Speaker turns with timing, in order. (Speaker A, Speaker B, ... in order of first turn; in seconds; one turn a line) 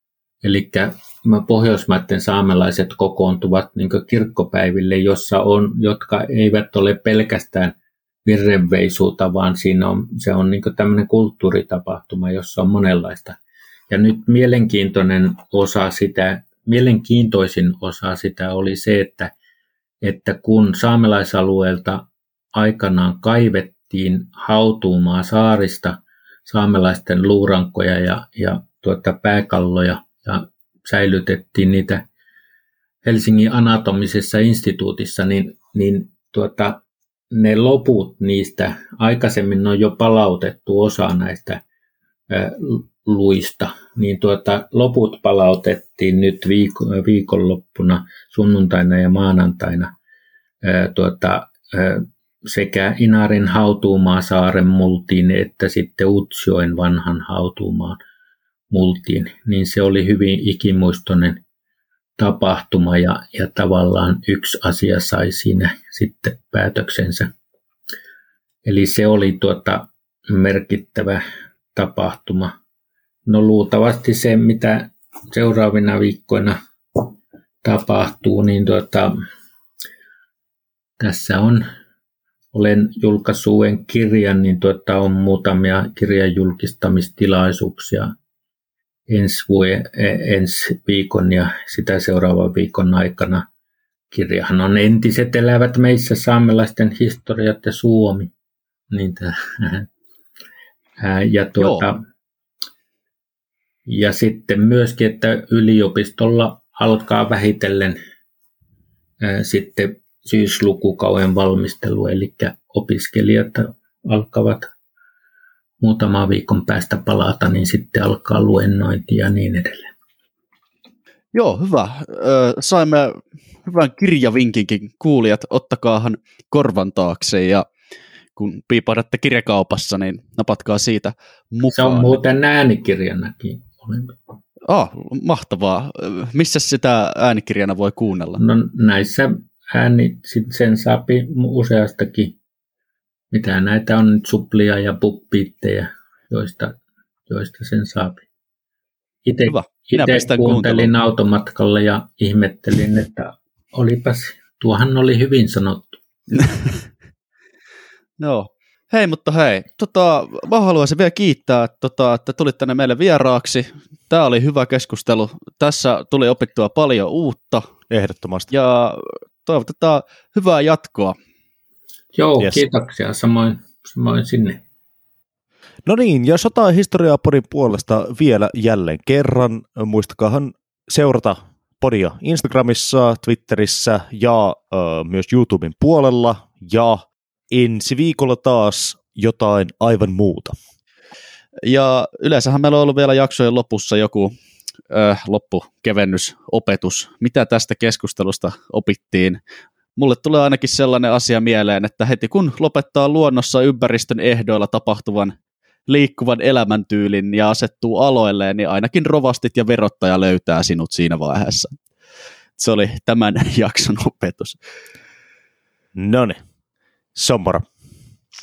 Speaker A: 0.4-13.4
Speaker A: 13.9-19.3
Speaker A: 20.0-32.0
Speaker A: 33.0-41.6
Speaker A: 42.3-49.9
Speaker A: 50.6-58.0
Speaker A: 58.7-61.4
Speaker A: 62.2-67.3
Speaker A: 68.7-71.2
Speaker A: 71.8-72.5
Speaker A: 73.3-79.1
Speaker A: 81.0-81.6
Speaker A: 82.5-88.1
Speaker A: 89.1-93.5
Speaker A: 94.1-98.3
Speaker A: 98.9-99.9
Speaker A: 101.0-102.0
Speaker B: 101.6-101.9
Speaker A: 103.9-108.0
Speaker A: 109.2-114.7
Speaker A: 115.8-119.9
Speaker B: 121.3-127.7
Speaker B: 128.4-132.2
Speaker A: 131.7-134.2
Speaker B: 134.7-138.4
Speaker A: 138.4-142.4
Speaker A: 143.3-146.8
Speaker A: 147.3-148.2
Speaker A: 149.2-156.0
Speaker B: 149.5-150.9
Speaker B: 158.2-167.7
Speaker C: 167.9-168.5
Speaker B: 168.5-171.2
Speaker A: 172.2-174.6
Speaker C: 175.9-190.6
Speaker B: 191.7-194.3
Speaker B: 194.9-199.4
Speaker B: 200.0-205.4
Speaker B: 205.9-211.8
Speaker B: 212.6-214.6
Speaker C: 215.9-216.4
Speaker C: 217.2-217.7